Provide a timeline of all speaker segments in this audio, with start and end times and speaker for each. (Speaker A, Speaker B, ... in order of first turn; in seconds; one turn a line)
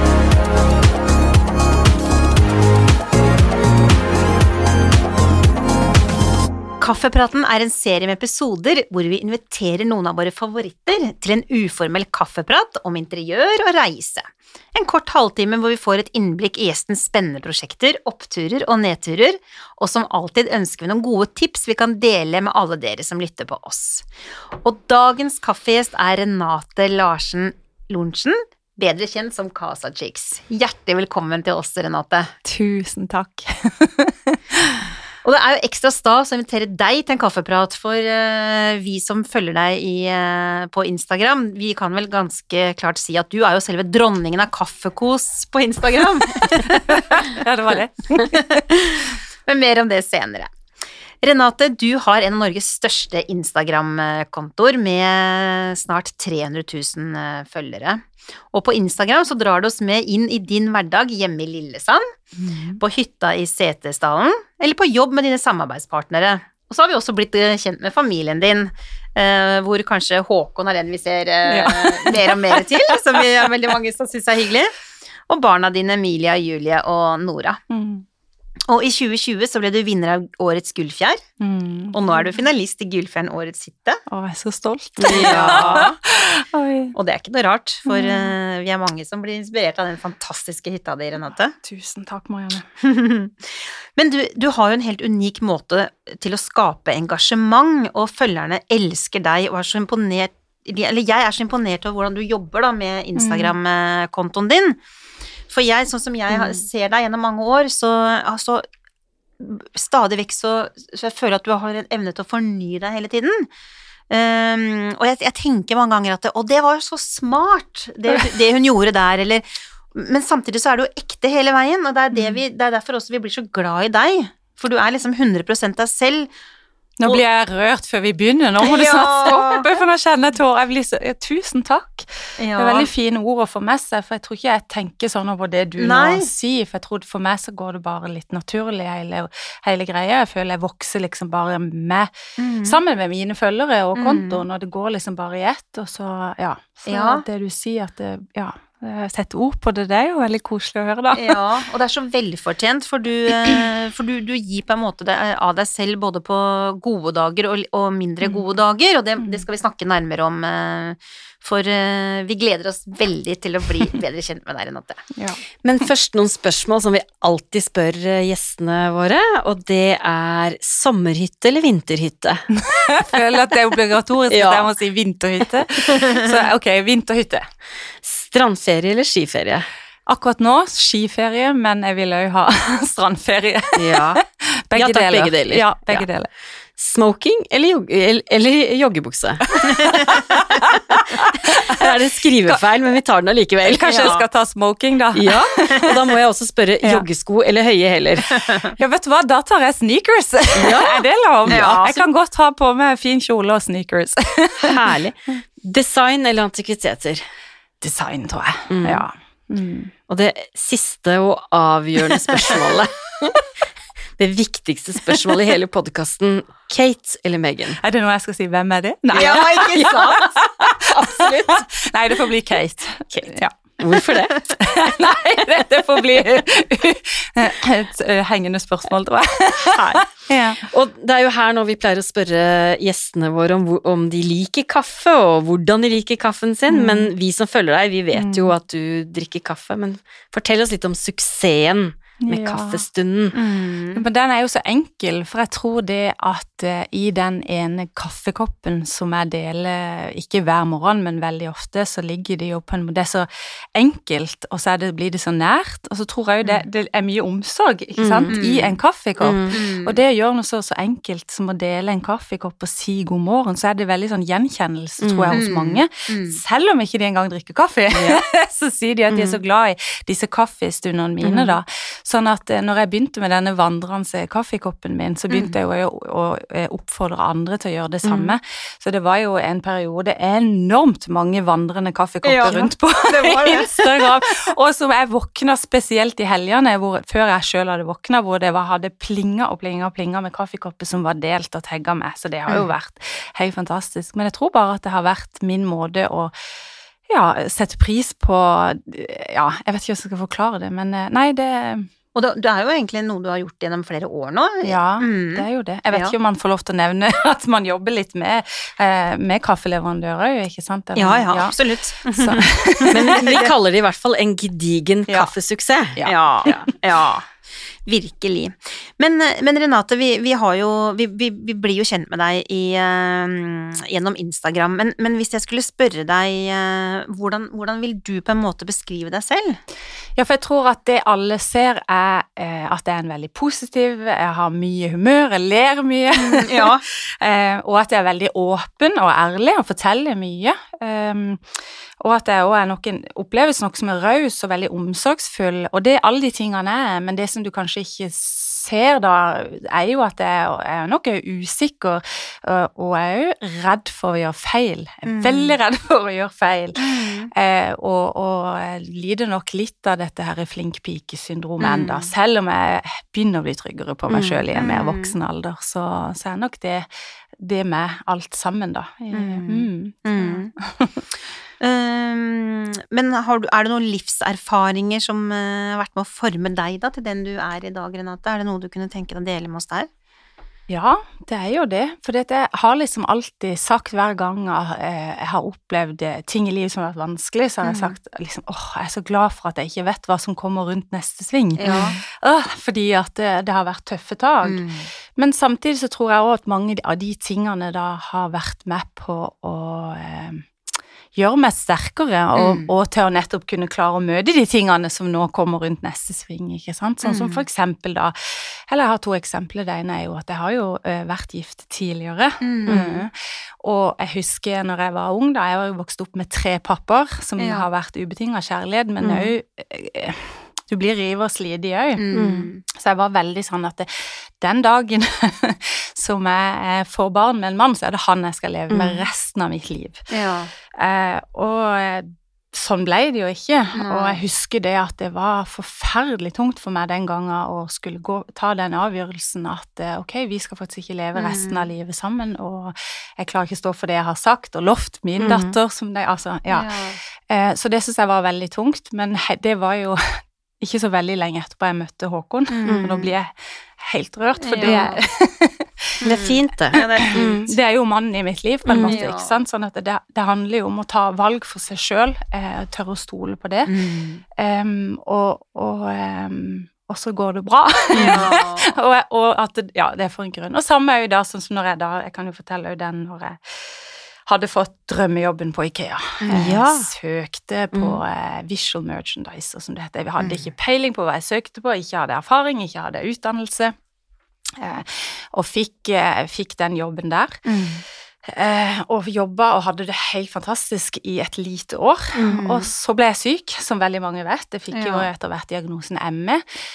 Speaker A: 6.8-32.3
Speaker B: 32.4-34.9
Speaker A: 35.2-47.4
Speaker B: 46.7-48.6
Speaker A: 48.2-50.5
Speaker A: 51.2-62.1
Speaker B: 62.3-62.8
Speaker A: 62.8-74.8
Speaker B: 71.5-73.2
Speaker A: 75.3-77.6
Speaker B: 77.7-78.0
Speaker A: 78.7-81.2
Speaker B: 81.4-82.4
Speaker A: 81.9-84.0
Speaker B: 84.1-86.9
Speaker C: 85.0-85.8
Speaker A: 85.1-86.0
Speaker A: 86.9-91.5
Speaker B: 87.8-88.3
Speaker B: 91.6-92.7
Speaker A: 92.8-104.8
Speaker B: 103.2-103.5
Speaker A: 105.5-108.6
Speaker A: 109.4-113.5
Speaker A: 114.1-126.3
Speaker B: 122.1-122.4
Speaker B: 127.0-142.1
Speaker A: 128.6-129.7
Speaker A: 132.4-132.9
Speaker A: 135.8-136.3
Speaker A: 142.4-142.8
Speaker B: 142.6-151.4
Speaker A: 143.9-144.4
Speaker A: 146.9-147.2
Speaker A: 151.1-165.0
Speaker B: 165.1-165.4
Speaker C: 165.6-172.4
Speaker B: 172.6-177.4
Speaker C: 174.3-174.7
Speaker C: 175.8-176.3
Speaker C: 178.0-179.7
Speaker B: 180.1-184.0
Speaker C: 183.8-184.2
Speaker B: 184.7-186.3
Speaker C: 184.7-186.1
Speaker C: 186.8-194.2
Speaker B: 189.6-192.6
Speaker B: 193.6-196.0
Speaker C: 195.1-198.6
Speaker A: 198.3-198.7
Speaker B: 198.8-204.8
Speaker C: 200.6-201.0
Speaker A: 201.5-202.0
Speaker C: 204.6-207.2
Speaker B: 207.8-209.9
Speaker C: 208.7-209.0
Speaker C: 210.1-213.5
Speaker C: 214.2-217.8
Speaker B: 217.8-223.5
Speaker A: 219.1-220.3
Speaker C: 219.1-221.7
Speaker C: 223.8-224.9
Speaker B: 224.6-230.7
Speaker C: 230.6-243.3
Speaker B: 236.7-237.1
Speaker B: 238.1-238.5
Speaker B: 242.2-242.8
Speaker A: 243.3-244.0
Speaker B: 243.9-296.3
Speaker C: 258.0-258.3
Speaker A: 258.3-258.7
Speaker C: 259.2-259.5
Speaker A: 259.5-260.0
Speaker C: 265.0-265.4
Speaker A: 265.3-266.4
Speaker C: 267.9-268.2
Speaker C: 271.2-271.6
Speaker C: 278.0-278.3
Speaker A: 282.2-284.1
Speaker B: 297.1-301.9
Speaker A: 302.1-306.1
Speaker B: 304.6-313.5
Speaker A: 310.9-313.4
Speaker C: 312.9-316.0
Speaker B: 315.9-316.6
Speaker A: 316.0-317.3
Speaker A: 317.8-329.6
Speaker B: 330.1-356.8
Speaker A: 336.1-336.8
Speaker A: 355.0-355.5
Speaker A: 356.8-357.3
Speaker B: 357.3-371.1
Speaker A: 361.6-362.1
Speaker A: 364.1-365.1
Speaker A: 369.1-370.5
Speaker A: 371.6-379.9
Speaker B: 380.7-400.5
Speaker A: 387.6-387.9
Speaker A: 391.6-391.9
Speaker A: 394.4-394.9
Speaker B: 401.1-422.0
Speaker A: 402.4-402.7
Speaker A: 407.0-407.4
Speaker A: 412.4-413.0
Speaker A: 417.4-417.6
Speaker A: 421.9-422.6
Speaker C: 422.1-422.5
Speaker B: 422.7-430.0
Speaker A: 428.7-429.0
Speaker A: 430.1-430.5
Speaker B: 430.8-455.9
Speaker A: 433.7-434.2
Speaker A: 441.1-441.7
Speaker C: 445.2-445.6
Speaker A: 446.5-447.0
Speaker A: 452.5-453.1
Speaker A: 454.4-455.0
Speaker A: 456.0-457.3
Speaker C: 456.0-457.5
Speaker B: 456.8-463.7
Speaker C: 458.7-459.0
Speaker A: 458.7-459.3
Speaker A: 463.6-464.2
Speaker B: 464.3-483.7
Speaker A: 467.9-468.7
Speaker A: 476.2-476.5
Speaker C: 476.3-476.9
Speaker C: 477.7-478.0
Speaker A: 480.2-480.5
Speaker B: 484.6-487.4
Speaker A: 487.4-487.8
Speaker B: 488.2-496.4
Speaker C: 492.1-492.4
Speaker A: 492.3-492.7
Speaker A: 494.7-495.1